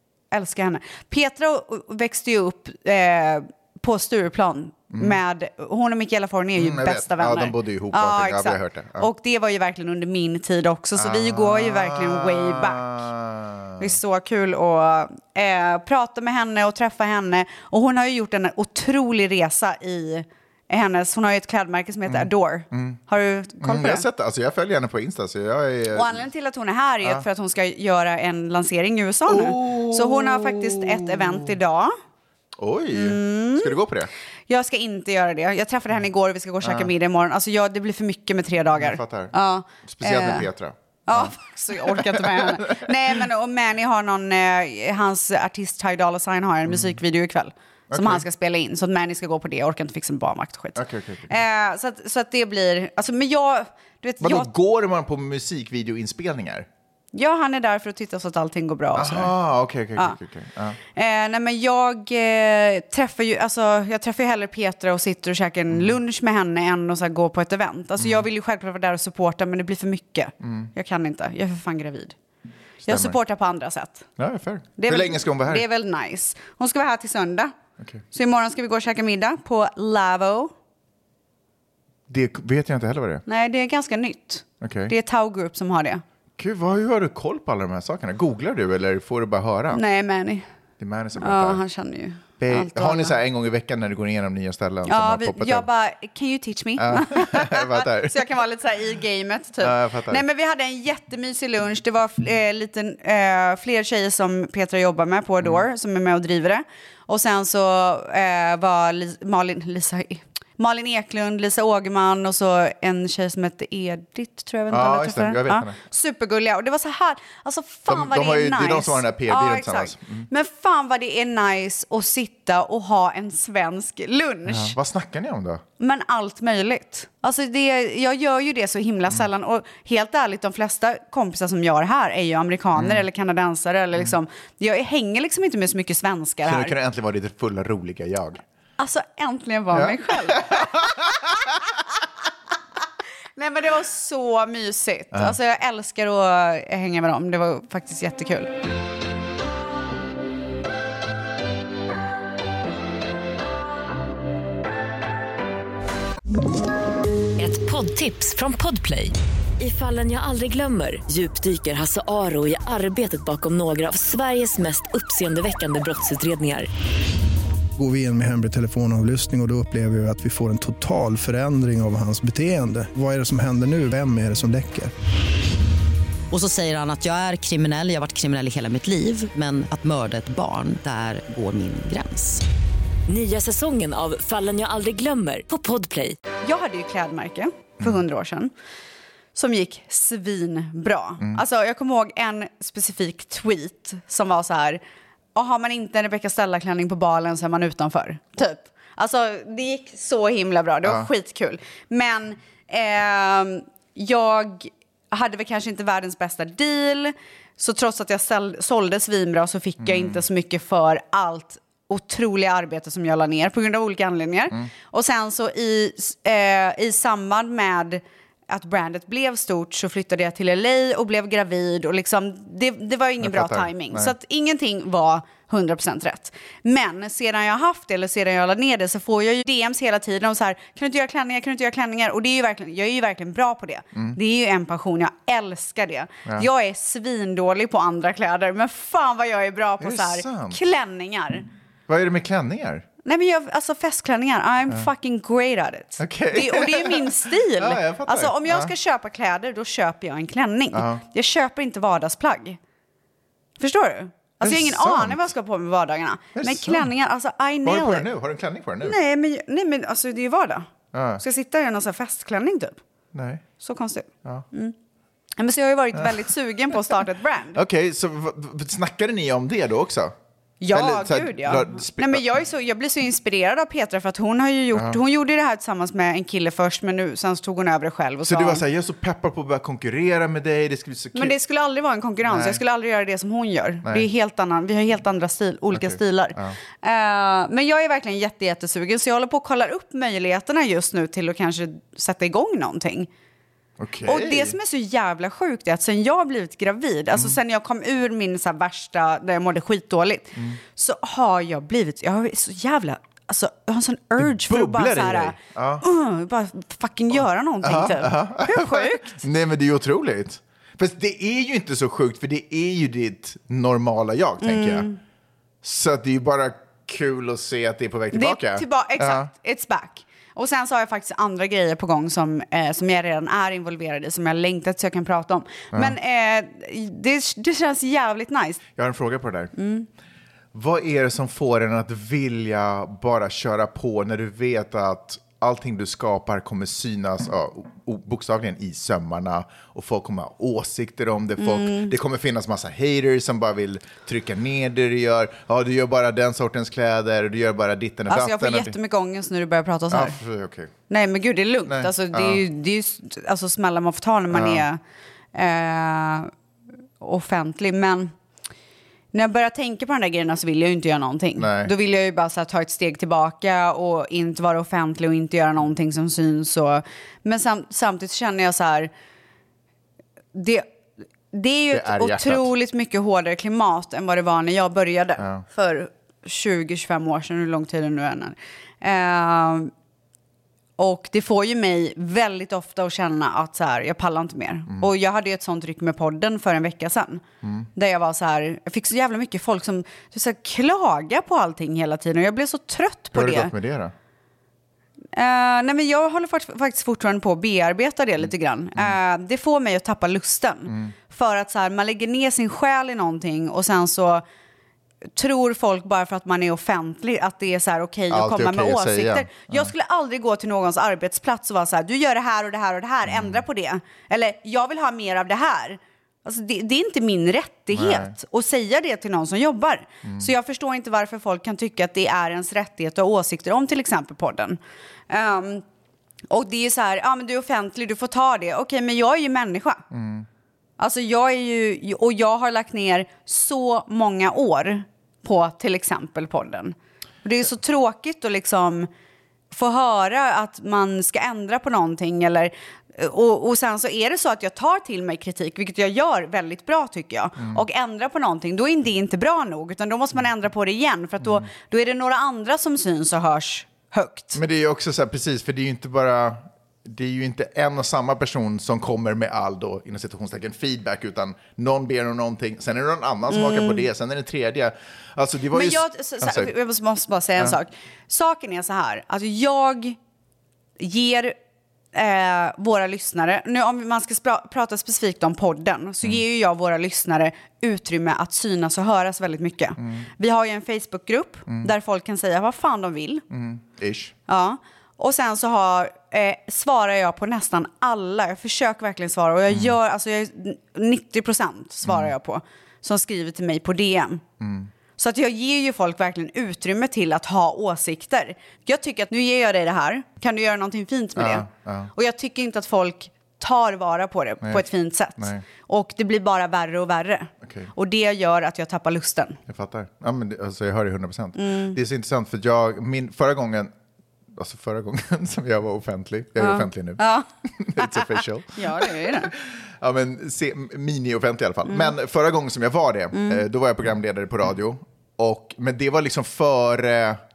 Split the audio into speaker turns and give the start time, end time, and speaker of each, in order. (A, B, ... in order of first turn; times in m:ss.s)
0:00.3-0:12.9 A
0:04.9-0:05.2 B
0:06.6-0:09.1 B
0:11.0-0:13.9 B
0:13.8-0:24.0 A
0:22.1-0:23.0 B
0:23.6-0:26.2 B
0:25.9-0:31.9 A
0:29.3-0:31.5 B
0:32.6-0:34.1 B
0:32.9-0:33.8 A
0:34.5-0:40.5 A
0:36.6-0:36.9 B
0:38.7-0:39.3 B
0:39.8-0:42.9 B
0:41.1-0:54.5 A
0:46.7-0:46.9 B
0:47.9-0:48.2 B
0:50.8-0:51.3 B
0:54.2-0:56.7 B
0:57.1-0:59.3 A
0:58.9-1:00.8 B
1:00.9-1:12.1 A
1:08.0-1:08.2 B
1:10.4-1:10.7 B
1:12.8-1:13.2 B
1:12.8-1:14.0 A
1:14.2-1:15.6 B
1:14.8-1:17.5 A
1:18.1-1:20.5 A
1:22.1-1:23.2 B
1:23.2-1:26.0 A
1:24.6-1:24.9 B
1:26.4-1:29.8 B
1:29.7-1:30.4 A
1:30.8-1:31.6 B
1:31.2-1:33.2 A
1:32.4-1:35.6 B
1:34.8-2:04.7 A
1:36.8-1:38.2 B
1:39.6-1:40.2 B
1:54.7-1:55.8 B
1:57.9-2:00.3 B
2:04.4-2:05.6 B
2:05.8-2:16.7 A
2:12.7-2:13.0 B
2:16.4-2:18.4 B
2:18.8-2:20.8 A
2:19.7-2:21.1 B
2:23.4-2:28.5 A
2:37.4-2:46.7 C
2:47.8-2:54.9 D
2:56.3-3:02.4 E
3:03.1-3:06.2 C
3:06.4-3:08.5 A
3:09.3-3:14.8 A
3:15.3-4:01.5 A
3:29.8-3:30.2 B
3:43.2-3:44.1 B
3:59.8-4:00.6 B
4:01.9-4:02.8 B
4:03.0-4:12.6 A
4:06.0-4:08.7 B
4:10.7-4:11.0 B
4:13.6-4:18.1 A
4:14.4-4:15.3 B
4:16.3-4:16.9 B
4:17.6-4:19.0 B
4:18.8-4:22.8 A
4:20.9-4:21.2 B
4:23.1-4:23.4 B
4:23.6-4:24.7 A
4:25.4-4:27.6 A
4:27.5-4:30.1 B
4:30.6-4:38.6 A
4:30.7-4:32.3 B
4:34.7-4:35.0 B
4:38.2-4:41.4 B
4:41.1-4:53.1 A
4:42.2-4:42.6 B
4:45.7-4:46.6 B
4:53.8-4:54.6 B
4:54.0-5:09.2 A
5:04.2-5:05.8 B
5:07.6-5:14.9 B
5:14.4-5:15.0 A
5:15.6-5:19.3 B
5:18.1-5:28.6 A
5:28.8-5:29.5 B
5:29.6-5:29.9 A
5:30.5-5:48.7 B
5:41.4-5:41.9 A
5:48.1-5:50.2 A
5:49.9-5:50.7 B
5:50.9-5:54.8 A
5:51.6-5:52.4 B
5:54.3-5:54.6 B
5:55.3-5:56.3 A
5:57.0-5:58.1 A
5:59.1-6:08.9 A
6:01.4-6:01.7 B
6:10.3-6:10.7 A
6:11.3-6:19.7 A
6:11.7-6:12.5 B
6:15.2-6:15.4 B
6:20.8-6:27.2 A
6:27.4-6:27.7 B
6:27.7-6:33.5 A
6:33.1-6:33.9 B
6:35.1-6:44.2 A
6:40.7-6:40.9 B
6:45.2-7:04.6 A
6:48.1-6:49.7 B
6:53.0-6:53.4 B
6:57.7-6:58.1 B
7:00.0-7:00.3 B
7:05.1-7:05.6 A
7:06.3-7:09.8 A
7:09.9-7:10.3 B
7:10.8-7:18.9 A
7:19.5-7:34.4 A
7:34.3-7:46.5 B
7:43.3-7:43.8 A
7:45.5-7:50.0 A
7:50.8-7:51.4 A
7:51.9-8:03.2 A
7:59.8-8:00.1 B
8:03.3-8:04.1 B
8:04.3-8:14.2 A
8:11.8-8:12.1 B
8:14.4-8:14.7 B
8:15.0-8:29.4 A
8:21.1-8:21.9 B
8:25.2-8:25.4 B
8:27.4-8:27.7 B
8:29.5-8:33.7 B
8:31.4-8:31.8 A
8:34.3-8:47.2 B
8:36.4-8:39.3 A
8:41.6-8:41.9 A
8:43.1-8:43.4 A